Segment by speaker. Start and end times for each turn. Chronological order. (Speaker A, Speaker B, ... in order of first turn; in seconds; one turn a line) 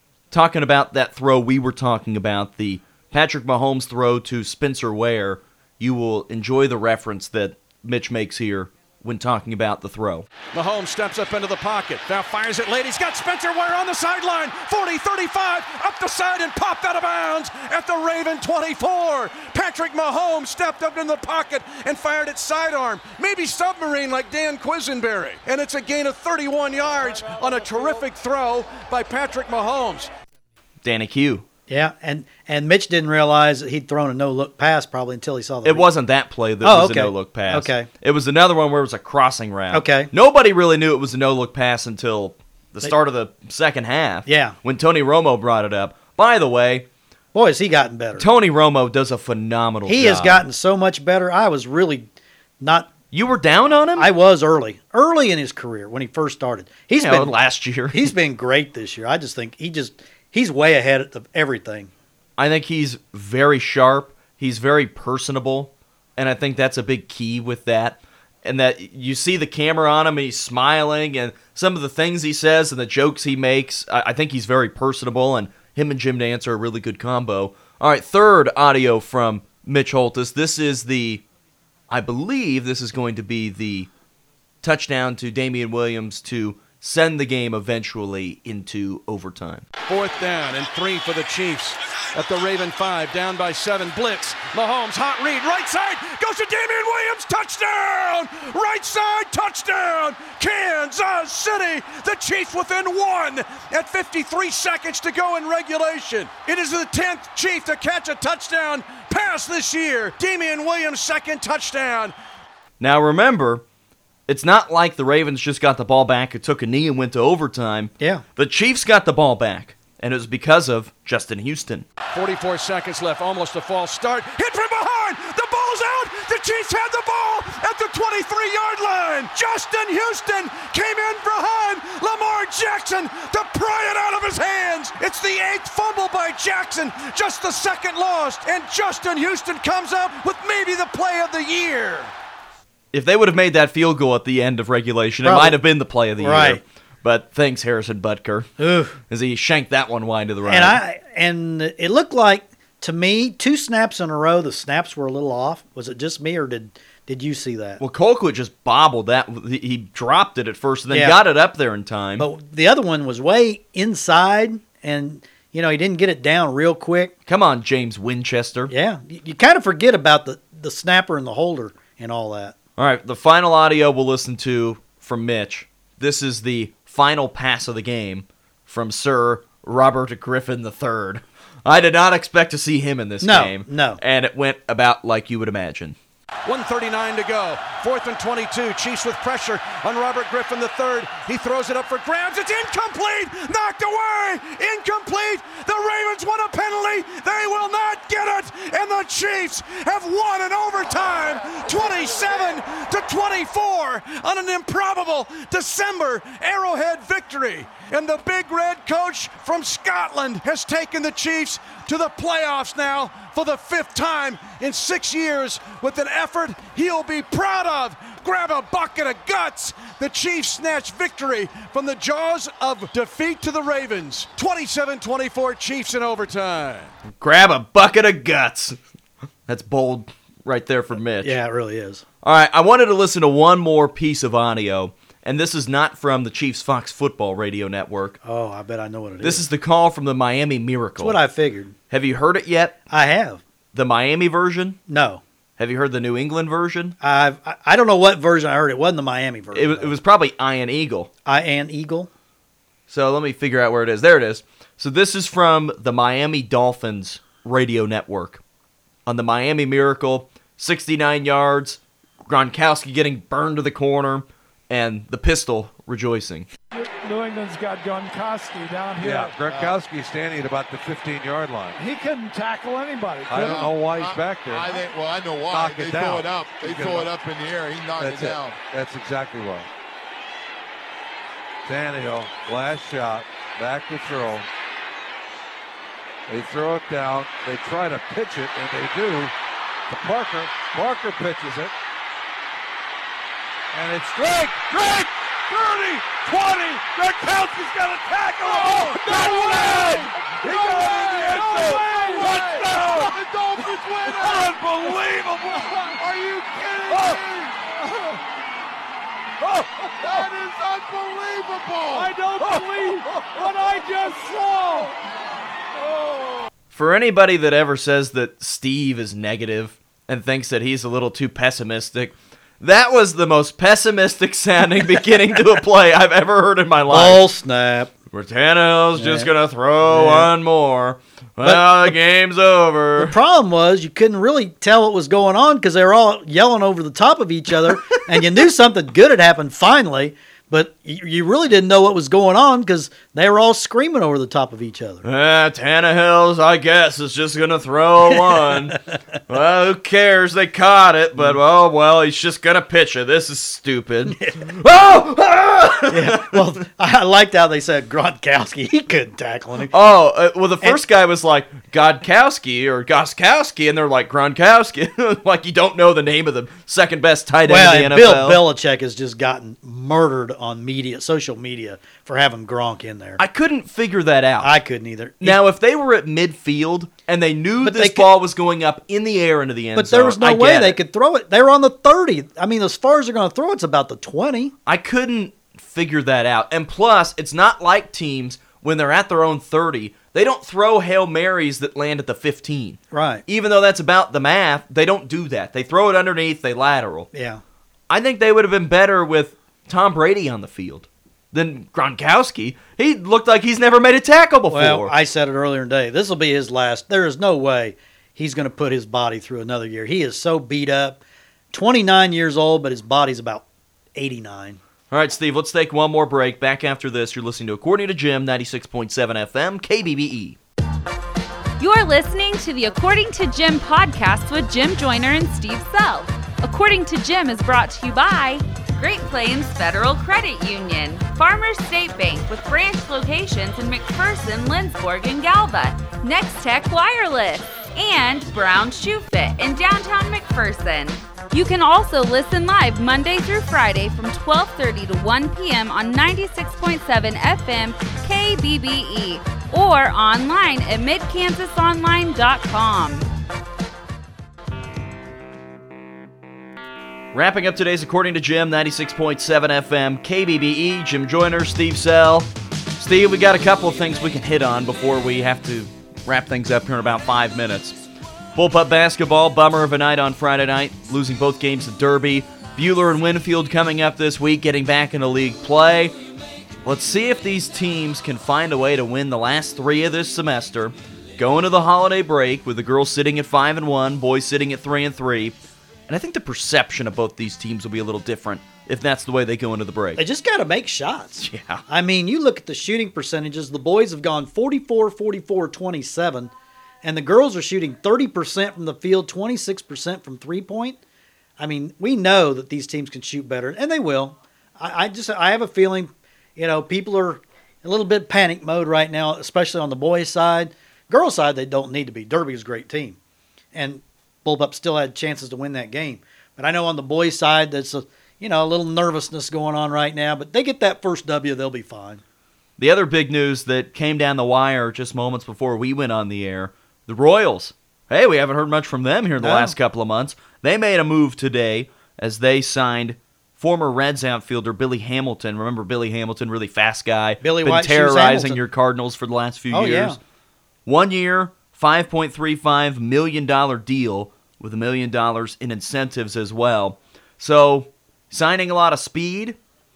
Speaker A: 0.3-10.3
Speaker B: 10.5-30.1
Speaker A: 30.8-31.4
Speaker C: 31.7-35.8
Speaker A: 35.6-46.9
Speaker C: 36.6-37.9
Speaker C: 39.7-40.1
Speaker C: 44.2-44.6
Speaker C: 47.3-48.3
Speaker A: 48.2-50.4
Speaker C: 49.9-52.9
Speaker A: 53.1-54.1
Speaker C: 54.0-57.3
Speaker A: 57.0-58.1
Speaker C: 57.9-61.9
Speaker A: 62.4-81.2
Speaker A: 81.9-83.9
Speaker A: 84.6-89.6
Speaker B: 89.9-112.1
Speaker A: 112.8-113.6
Speaker A: 114.3-121.8
Speaker B: 122.1-142.1
Speaker A: 142.9-148.5
Speaker C: 145.2-145.6
Speaker C: 146.2-146.6
Speaker C: 148.6-149.0
Speaker A: 149.1-150.8
Speaker C: 150.4-157.8
Speaker A: 157.8-162.3
Speaker C: 160.9-161.2
Speaker C: 162.2-167.1
Speaker A: 167.3-168.7
Speaker C: 168.7-172.6
Speaker A: 172.8-186.0
Speaker C: 183.2-184.0
Speaker B: 186.4-226.9
Speaker A: 227.2-228.8
Speaker A: 229.5-231.4
Speaker C: 231.2-232.0
Speaker A: 232.2-238.2
Speaker C: 238.2-239.4
Speaker A: 239.2-241.2
Speaker C: 241.0-241.7
Speaker A: 241.9-242.8
Speaker C: 242.9-243.4
Speaker A: 243.7-244.8
Speaker C: 244.9-245.2
Speaker A: 245.6-246.9
Speaker C: 247.0-249.9
Speaker A: 249.5-251.1
Speaker C: 251.2-252.1
Speaker A: 252.9-258.4
Speaker A: 259.1-266.5
Speaker D: 266.7-269.4
Speaker E: 269.0-271.8
Speaker F: 269.4-269.8
Speaker D: 271.7-273.7
Speaker E: 273.3-274.8
Speaker F: 273.3-278.6
Speaker E: 275.5-277.2
Speaker E: 278.0-279.7
Speaker E: 281.6-284.5
Speaker E: 286.3-289.3
Speaker E: 289.9-291.7
Speaker E: 293.7-303.2
Speaker D: 298.4-303.0
Speaker F: 298.4-304.5
Speaker E: 304.0-305.8
Speaker F: 305.8-307.6
Speaker E: 306.9-307.2
Speaker F: 309.9-312.1
Speaker E: 311.9-314.7
Speaker D: 312.0-314.6
Speaker A: 316.7-327.2
Speaker C: 326.9-327.9
Speaker A: 328.1-333.1
Speaker C: 328.9-329.3
Speaker C: 329.8-330.3
Speaker C: 331.4-331.9
Speaker C: 333.0-345.0
Speaker A: 345.0-348.8
Speaker C: 348.0-349.0
Speaker A: 349.3-356.4
Speaker C: 354.1-354.5
Speaker C: 355.9-359.7
Speaker A: 359.7-368.4
Speaker C: 367.4-373.2
Speaker A: 373.2-374.5
Speaker C: 374.4-375.4
Speaker A: 375.2-380.8
Speaker C: 377.6-378.1
Speaker C: 379.8-384.5
Speaker A: 384.6-397.1
Speaker C: 392.9-393.2
Speaker C: 397.1-397.4
Speaker A: 397.9-404.9
Speaker C: 404.5-411.0
Speaker C: 411.5-413.4
Speaker C: 413.9-414.6
Speaker A: 414.9-420.4
Speaker G: 421.6-453.1
Speaker A: 457.1-467.7
Speaker A: 468.3-475.9
Speaker A: 476.6-485.3
Speaker A: 485.9-490.0
Speaker C: 490.0-496.3
Speaker A: 491.2-491.6
Speaker C: 496.8-500.8
Speaker C: 501.4-513.0
Speaker C: 513.5-522.0
Speaker A: 522.6-540.0
Speaker C: 529.2-529.5
Speaker C: 537.2-538.4
Speaker C: 539.5-540.0
Speaker A: 540.6-549.4